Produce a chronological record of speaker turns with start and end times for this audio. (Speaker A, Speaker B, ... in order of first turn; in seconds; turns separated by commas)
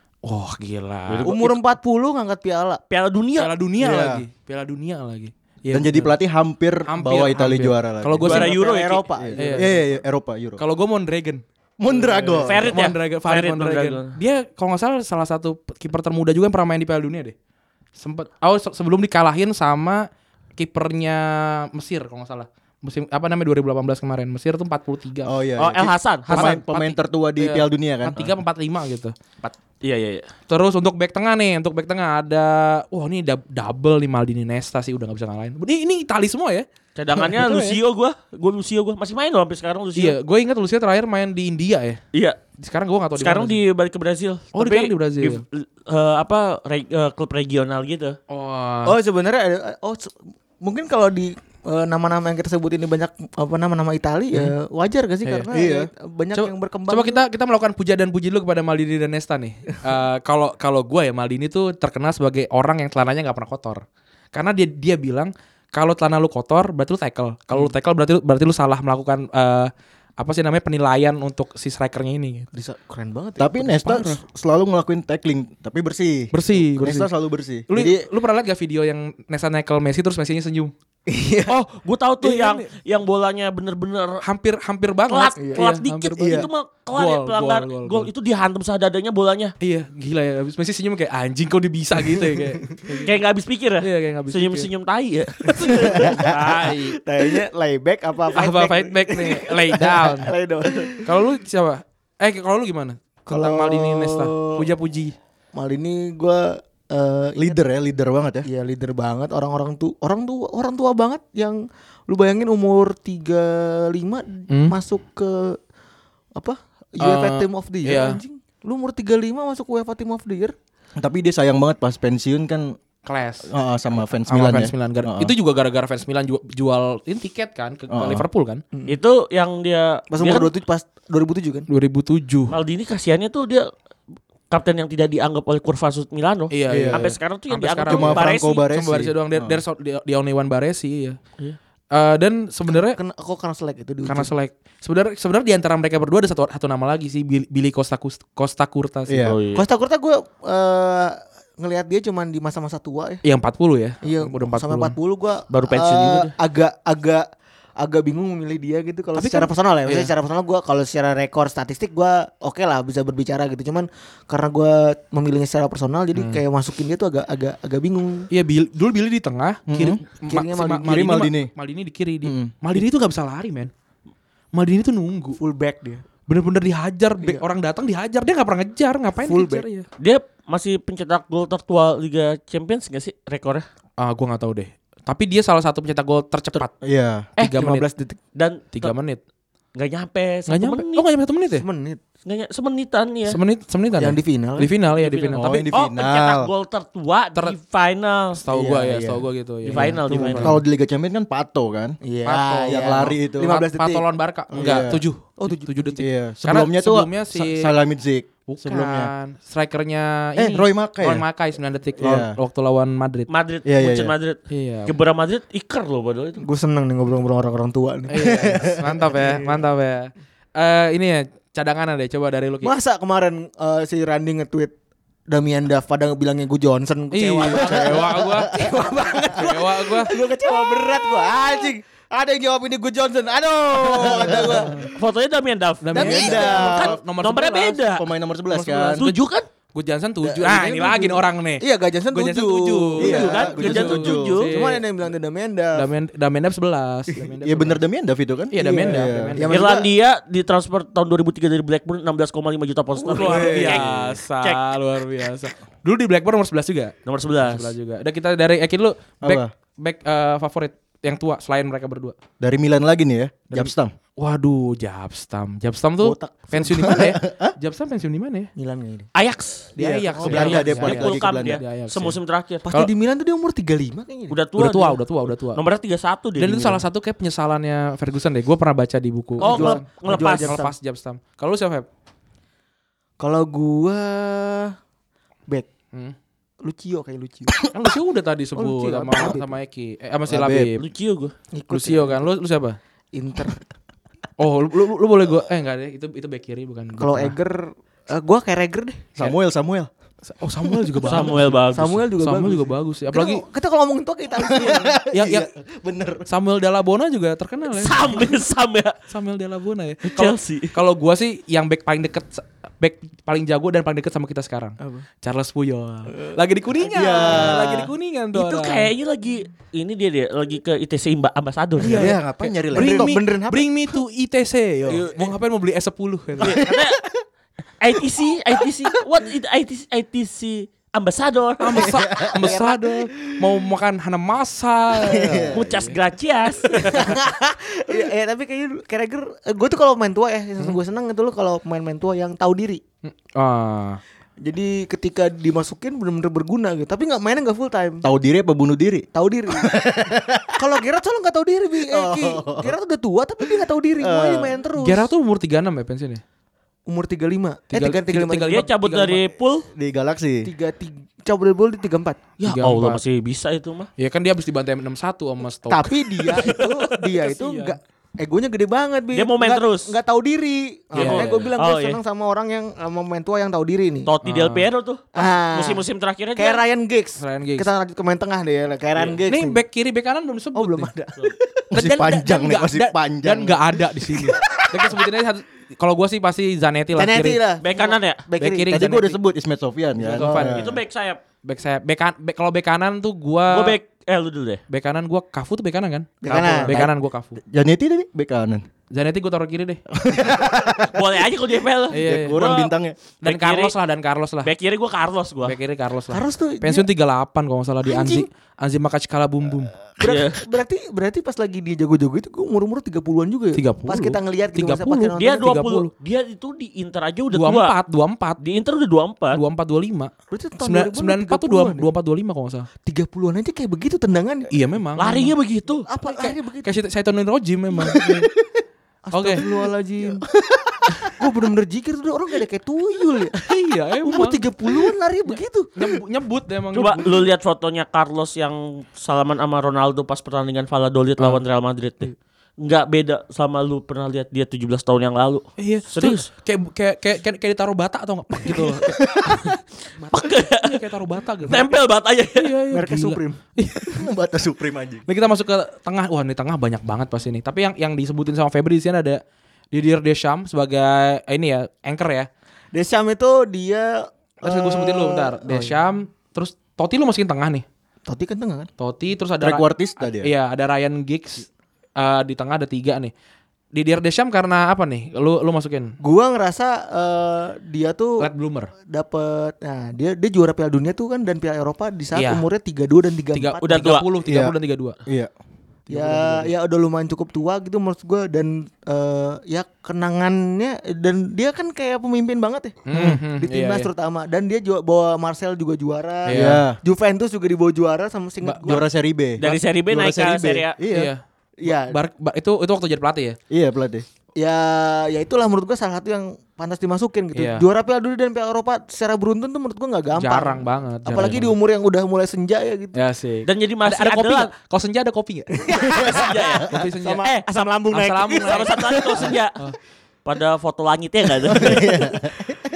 Speaker A: 0.2-1.4, Speaker B: 1.1-1.5, Speaker C: 1.2-2.8, Speaker B: 2.9-3.5, Speaker A: 3.4-6.2, Speaker D: 3.8-4.2, Speaker D: 5.7-8.5, Speaker A: 6.9-8.5, Speaker B: 8.2-9.0, Speaker C: 8.3-9.9, Speaker D: 9.2-10.6, Speaker A: 9.4-9.8, Speaker A: 10.6-17.3, Speaker D: 11.8-12.7, Speaker B: 12.4-14.2, Speaker A: 18.0-25.3, Speaker D: 25.2-28.3, Speaker B: 25.6-26.5, Speaker A: 26.3-29.1, Speaker B: 29.4-30.3, Speaker A: 30.5-36.6, Speaker B: 37.0-40.2, Speaker A: 37.4-37.7, Speaker A: 39.9-42.0, Speaker A: 42.6-43.6, Speaker B: 43.2-48.2, Speaker A: 44.5-45.4, Speaker A: 48.3-48.9, Speaker C: 48.9-57.2, Speaker D: 55.5-55.9, Speaker A: 56.3-72.5, Speaker C: 72.5-74.2, Speaker D: 73.4-78.0, Speaker A: 76.3-77.1, Speaker A: 77.7-80.7, Speaker C: 81.1-81.5, Speaker B: 81.5-84.2, Speaker A: 82.2-82.7, Speaker A: 84.2-88.1, Speaker B: 85.1-89.5, Speaker D: 86.2-86.5, Speaker A: 89.6-93.1, Speaker C: 92.0-92.5, Speaker B: 93.0-96.8, Speaker A: 93.8-94.7, Speaker A: 95.6-97.0, Speaker C: 96.0-96.2, Speaker C: 97.0-101.1, Speaker A: 98.3-100.3, Speaker A: 101.0-105.1, Speaker C: 103.3-104.7, Speaker C: 105.5-107.6, Speaker D: 107.4-108.5, Speaker C: 108.4-115.6, Speaker A: 114.5-114.7, Speaker C: 116.3-120.5, Speaker A: 117.0-118.2, Speaker D: 121.0-122.8, Speaker A: 123.0-128.6, Speaker D: 123.5-125.3, Speaker D: 127.9-128.2, Speaker B: 128.9-130.5, Speaker C: 130.1-131.7, Speaker A: 131.7-132.5, Speaker B: 132.5-133.7, Speaker B: 134.5-138.6, Speaker A: 136.5-141.2, Speaker D: 136.7-137.0, Speaker D: 137.9-139.6, Speaker A: 141.9-143.0, Speaker C: 142.7-144.3, Speaker A: 144.0-149.3, Speaker D: 149.1-149.4, Speaker B: 149.2-149.6, Speaker C: 149.5-153.2, Speaker A: 153.2-154.9, Speaker C: 154.0-157.2, Speaker B: 155.5-156.3, Speaker C: 157.8-168.3, Speaker A: 159.1-160.1, Speaker A: 166.1-166.4, Speaker A: 168.3-173.7, Speaker D: 169.7-170.0, Speaker C: 170.3-171.0, Speaker D: 170.8-171.5, Speaker D: 172.2-172.5, Speaker A: 174.5-175.4, Speaker C: 175.4-176.0, Speaker A: 176.3-179.9, Speaker C: 179.2-179.7, Speaker B: 180.0-183.7, Speaker A: 184.0-186.7, Speaker D: 186.8-187.3, Speaker A: 187.4-187.9, Speaker C: 187.4-188.2, Speaker B: 188.3-188.9, Speaker A: 188.7-189.2, Speaker B: 189.8-191.0, Speaker A: 190.5-191.6, Speaker C: 191.6-192.0, Speaker B: 192.2-193.4, Speaker A: 193.3-195.7, Speaker C: 194.0-194.7, Speaker B: 195.0-198.4, Speaker D: 195.3-196.5, Speaker A: 198.3-200.5, Speaker D: 198.5-199.2, Speaker B: 199.7-200.6, Speaker C: 199.8-200.6, Speaker D: 200.4-202.0, Speaker C: 202.0-206.0, Speaker A: 202.2-207.7, Speaker D: 202.7-203.6, Speaker D: 204.5-205.0, Speaker D: 206.0-209.1, Speaker A: 208.5-213.3, Speaker D: 210.3-211.2, Speaker D: 212.0-212.3, Speaker B: 213.3-216.4, Speaker D: 213.6-214.1, Speaker A: 214.5-214.9, Speaker C: 216.4-218.4, Speaker A: 218.1-222.7, Speaker D: 218.2-218.7, Speaker C: 219.1-219.6, Speaker C: 222.6-224.7, Speaker C: 225.3-234.9, Speaker A: 227.1-230.1, Speaker D: 233.9-234.7, Speaker B: 234.9-238.1, Speaker A: 235.8-237.8, Speaker D: 235.9-237.0, Speaker C: 235.9-236.8, Speaker D: 237.9-239.0, Speaker A: 238.5-244.8, Speaker B: 239.0-239.4, Speaker C: 240.2-243.9, Speaker D: 243.0-244.4, Speaker B: 243.0-244.6, Speaker C: 244.5-245.9, Speaker A: 245.7-247.8, Speaker D: 247.4-249.4, Speaker A: 248.5-249.6, Speaker C: 248.6-249.9, Speaker B: 249.5-254.6, Speaker A: 253.1-262.1, Speaker D: 253.2-253.8, Speaker B: 257.1-257.7, Speaker D: 259.2-259.5, Speaker D: 262.4-263.9, Speaker A: 263.5-268.5, Speaker C: 266.0-266.5, Speaker D: 266.6-267.5, Speaker C: 268.6-269.1, Speaker B: 269.1-269.7, Speaker A: 269.8-272.2, Speaker C: 269.8-270.6, Speaker D: 270.1-271.6, Speaker B: 270.3-272.6, Speaker C: 272.6-274.4, Speaker B: 274.3-275.0, Speaker A: 274.6-275.6, Speaker B: 275.5-276.8, Speaker A: 276.4-281.9, Speaker B: 279.4-280.6, Speaker C: 279.4-280.7, Speaker C: 283.2-284.7, Speaker C: 286.6-287.6, Speaker A: 287.7-290.8, Speaker C: 288.6-289.4, Speaker D: 290.3-290.7, Speaker B: 290.8-291.3, Speaker C: 291.5-292.2, Speaker A: 291.7-292.8, Speaker C: 293.1-293.6, Speaker A: 294.4-297.3, Speaker C: 297.0-299.1, Speaker D: 299.2-299.9, Speaker A: 300.2-301.6, Speaker C: 300.6-305.0, Speaker B: 301.1-302.0, Speaker A: 302.2-303.4, Speaker D: 304.4-306.2, Speaker A: 305.1-305.5, Speaker A: 306.3-308.3, Speaker B: 307.7-308.9, Speaker A: 309.1-318.9, Speaker B: 310.1-310.7, Speaker C: 314.8-315.1, Speaker D: 316.9-317.9, Speaker B: 318.3-322.1, Speaker D: 321.8-323.2, Speaker A: 321.8-326.6, Speaker C: 322.7-324.0, Speaker B: 324.9-325.2, Speaker B: 326.4-327.0, Speaker B: 327.8-331.9, Speaker A: 331.6-335.9, Speaker D: 331.8-332.4, Speaker C: 332.4-333.0, Speaker D: 335.1-335.6, Speaker B: 335.5-337.1, Speaker C: 336.8-342.8, Speaker A: 343.0-344.0, Speaker C: 344.4-348.1, Speaker D: 348.0-350.5, Speaker C: 349.1-349.7, Speaker C: 350.6-355.1, Speaker D: 351.9-352.7, Speaker D: 353.6-354.5, Speaker A: 354.8-356.2, Speaker C: 356.9-358.6, Speaker A: 357.7-359.2, Speaker B: 358.4-359.7, Speaker D: 359.8-360.5, Speaker C: 360.4-362.2, Speaker A: 362.4-363.0, Speaker B: 362.4-363.9, Speaker A: 364.0-366.5, Speaker C: 365.7-374.1, Speaker B: 366.3-366.7, Speaker A: 367.2-367.8, Speaker B: 369.1-369.9, Speaker A: 370.9-371.5, Speaker B: 370.9-372.0, Speaker B: 374.0-376.6, Speaker A: 374.2-374.7, Speaker C: 375.1-375.8, Speaker C: 376.4-379.6, Speaker A: 377.2-377.7, Speaker A: 379.3-380.9, Speaker C: 380.5-381.6, Speaker D: 381.7-383.6, Speaker A: 381.7-387.4, Speaker C: 386.9-388.8, Speaker B: 387.6-388.2, Speaker A: 388.4-389.2, Speaker D: 388.6-390.8, Speaker A: 390.0-390.6, Speaker C: 390.1-390.4, Speaker B: 390.5-391.2, Speaker A: 391.4-393.8, Speaker B: 393.5-394.6, Speaker A: 394.7-397.4, Speaker C: 396.2-396.9, Speaker D: 397.5-398.6, Speaker A: 398.9-399.8, Speaker D: 400.0-400.9, Speaker B: 400.9-403.7, Speaker D: 401.9-402.9, Speaker A: 401.9-402.4, Speaker A: 403.2-404.5, Speaker B: 404.4-405.6, Speaker A: 405.4-409.7, Speaker C: 406.1-406.9, Speaker C: 407.9-408.2, Speaker C: 410.0-415.6, Speaker B: 410.0-410.4, Speaker A: 413.5-415.9, Speaker B: 415.2-417.7, Speaker A: 417.3-418.4, Speaker B: 418.4-419.4, Speaker A: 419.3-422.7, Speaker C: 420.3-421.9, Speaker C: 422.8-424.5, Speaker A: 424.5-425.3, Speaker B: 425.0-425.9, Speaker C: 425.9-426.7, Speaker A: 426.0-428.3, Speaker C: 429.0-430.2, Speaker A: 429.1-429.4, Speaker C: 431.1-433.3, Speaker A: 433.4-434.4, Speaker C: 434.0-435.7, Speaker A: 435.7-437.3, Speaker B: 436.7-446.3, Speaker A: 445.6-449.3, Speaker C: 448.4-448.8, Speaker B: 450.1-450.8, Speaker A: 450.3-451.7, Speaker B: 451.5-452.5, Speaker A: 452.4-453.9, Speaker C: 452.7-453.4, Speaker D: 453.9-455.0, Speaker A: 455.1-459.2, Speaker A: 459.7-462.3, Speaker C: 462.7-465.8, Speaker A: 464.4-467.6, Speaker C: 468.1-468.7, Speaker A: 468.8-473.1, Speaker D: 469.4-470.3, Speaker A: 473.7-475.9, Speaker C: 476.0-478.3, Speaker A: 478.2-478.7, Speaker C: 478.9-483.7, Speaker A: 482.1-482.4, Speaker A: 483.3-485.0, Speaker B: 483.6-484.0, Speaker D: 484.2-485.3, Speaker A: 485.9-486.4, Speaker C: 485.9-498.8, Speaker A: 492.9-493.9, Speaker D: 492.9-493.2, Speaker A: 496.3-496.6, Speaker D: 496.3-496.8, Speaker A: 498.4-498.8, Speaker D: 498.6-501.1, Speaker B: 499.4-500.8, Speaker A: 500.9-503.4, Speaker C: 501.6-501.9, Speaker D: 503.5-504.0, Speaker C: 504.4-513.0, Speaker A: 507.3-507.6, Speaker A: 510.1-511.5, Speaker A: 512.9-515.5, Speaker B: 513.5-514.5, Speaker C: 515.6-519.3, Speaker B: 515.9-516.7, Speaker A: 516.7-517.2, Speaker B: 517.2-519.6, Speaker A: 517.9-519.8, Speaker B: 520.2-522.0, Speaker D: 521.5-522.6